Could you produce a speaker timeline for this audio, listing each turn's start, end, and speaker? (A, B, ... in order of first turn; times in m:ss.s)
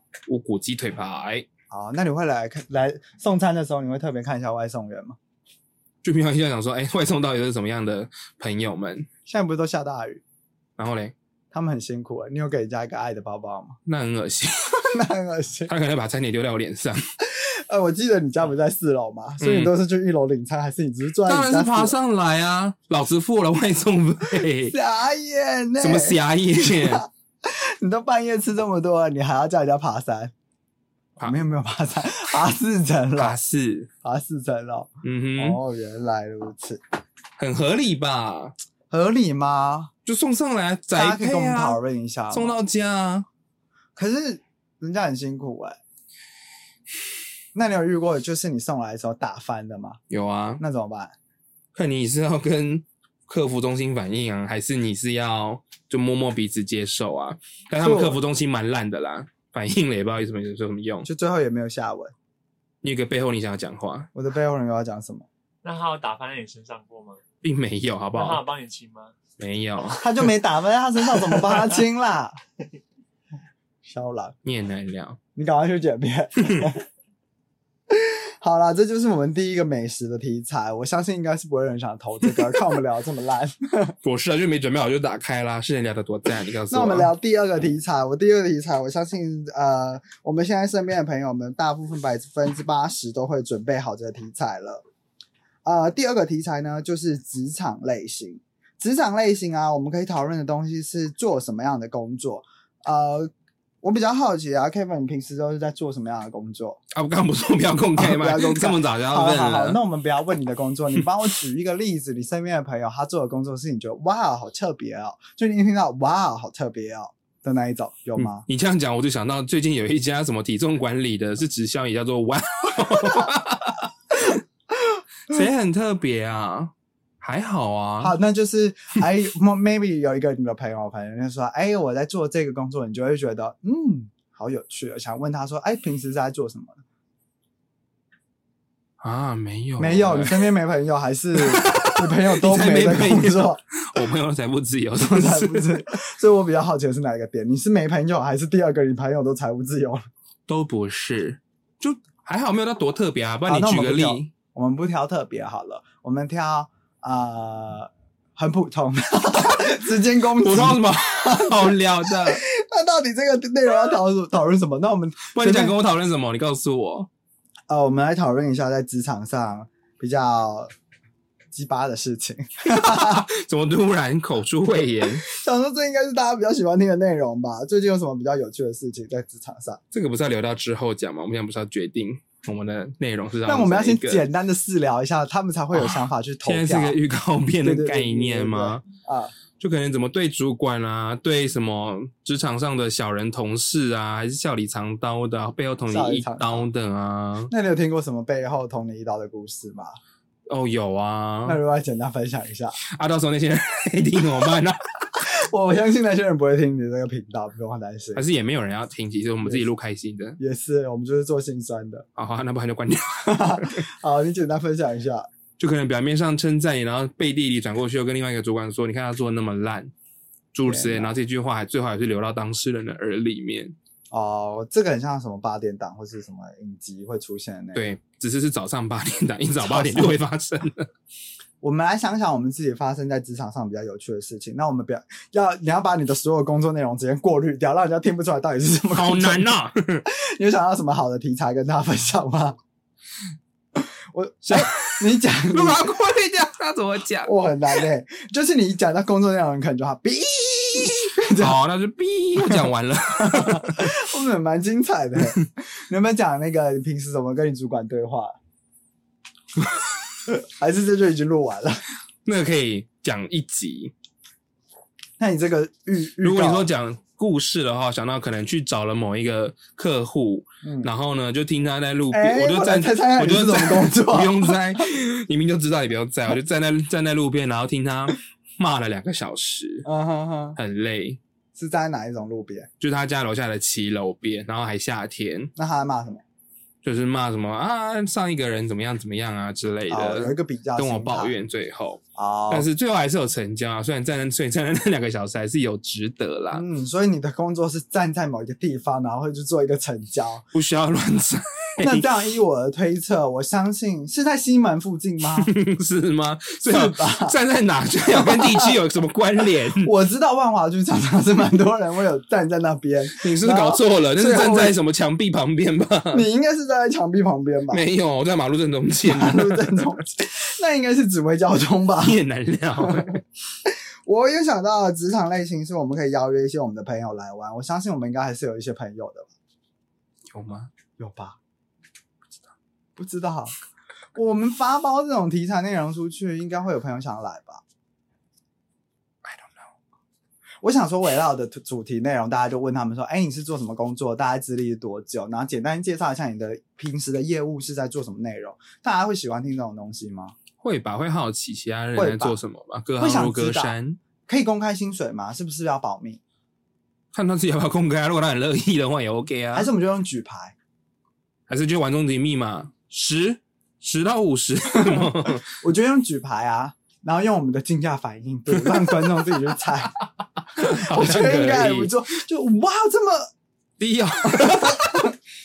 0:00.3-0:01.5 A
0:01.7-0:05.2 B
0:06.0-0:09.1 A
0:09.3-0:10.2 B
0:10.8-0:11.2 A
0:11.5-0:13.8 B
0:13.9-0:14.8 A
0:14.8-0:15.7 B
0:15.7-0:17.0 A
0:17.2-0:22.0 B
0:19.4-0:19.7 A
0:21.3-0:24.8 A
0:24.7-0:30.3 B
0:25.8-0:27.0 A
0:31.2-0:33.4 B
0:33.2-0:33.9 A
0:34.0-0:36.8 B
0:35.0-0:35.6 A
0:37.4-0:38.5 A
0:38.9-0:39.9 B
0:40.1-0:41.8 A
0:40.9-0:42.6 B
0:42.3-0:43.3 A
0:44.0-0:45.8 B
0:47.5-0:50.0 B
0:50.1-0:50.6 A
0:50.6-0:51.2 B
0:51.7-1:01.1 A
0:57.8-0:58.2 B
1:01.0-1:02.1 B
1:02.8-1:04.1 A
1:04.2-1:05.3 B
1:05.6-1:07.2 C
1:07.4-1:08.4 A
1:08.2-1:09.2 C
1:09.4-1:10.2 A
1:09.9-1:12.4 B
1:13.8-1:14.4 B
1:14.4-1:15.2 A
1:15.4-1:16.8 B
1:16.4-1:16.7 A
1:17.9-1:24.0 B
1:24.0-1:27.1 A
1:26.7-1:34.8 B
1:35.6-1:43.3 B
1:43.8-1:46.8 B
1:46.9-1:49.8 A
1:48.0-1:58.4 B
1:58.2-2:04.4 A
2:02.8-2:03.3 B
2:05.3-2:08.2 A
2:08.0-2:16.8 B
2:19.0-2:20.5 A
2:19.8-2:23.6 B
2:21.4-2:25.8 A
2:25.0-2:30.0 B
2:30.5-2:34.3 A
2:33.5-2:45.8 B
2:40.4-2:42.4 A
2:45.3-2:47.1 A
2:47.7-2:50.7 B
2:51.5-2:53.3 B
2:52.6-2:55.2 A
2:55.3-2:59.8 B
2:59.9-3:04.2 A
3:03.5-3:07.0 B
3:05.7-3:08.8 A
3:07.6-3:09.3 B
3:09.6-3:17.5 A
3:15.9-3:16.7 B
3:17.5-3:20.0 B
3:20.5-3:21.6 A
3:21.4-3:22.8 B
3:22.8-3:24.9 A
3:25.2-3:28.2 B
3:28.2-3:30.4 A
3:30.4-3:32.1 B
3:32.2-3:33.8 A
3:33.2-3:35.3 B
3:35.6-3:39.9 A
3:40.5-3:43.8 A
3:40.7-3:41.1 B
3:44.1-3:47.8 B
3:47.8-3:50.9 A
3:49.6-3:50.2 B
3:51.6-3:59.5 B
3:58.9-4:00.1 A
4:00.1-4:02.6 B
4:03.8-4:05.9 B
4:04.5-4:07.3 A
4:07.2-4:11.6 B
4:11.4-4:14.0 A
4:12.4-4:18.4 B
4:20.3-4:21.8 B
4:22.2-4:23.9 A
4:25.2-4:26.7 B
4:26.2-4:39.9 A
4:30.6-4:30.9 B
4:32.1-4:34.8 B
4:39.8-4:40.6 B
4:40.6-4:41.2 A
4:41.6-4:42.7 B
4:42.8-4:45.5 A
4:45.6-4:46.2 B
4:46.8-4:56.6 A
4:49.9-4:51.4 B
4:52.2-4:52.7 B
4:56.5-5:00.5 B
5:00.5-5:02.1 A
5:01.8-5:05.5 B
5:05.4-5:09.9 A
5:06.6-5:07.4 B
5:08.1-5:08.8 B
5:09.8-5:14.8 B
5:13.2-5:16.2 A
5:16.1-5:17.8 B
5:17.7-5:19.9 A
5:19.0-5:22.2 B
5:22.0-5:23.2 A
5:22.8-5:23.1 B
5:23.6-5:29.3 B
5:30.3-5:30.7 A
5:31.0-5:31.4 B
5:33.0-5:33.6 B
5:34.2-5:37.6 B
5:39.2-5:39.7 A
5:40.6-5:50.4 B
5:50.6-5:54.0 A
5:52.0-5:52.4 B
5:53.0-5:53.8 B
5:54.3-5:56.2 B
5:57.1-5:59.7 A
5:59.5-6:00.6 B
6:01.5-6:05.5 A
6:04.7-6:10.0 B
6:10.5-6:11.9 A
6:10.6-6:13.3 B
6:13.8-6:15.1 A
6:14.3-6:15.1 B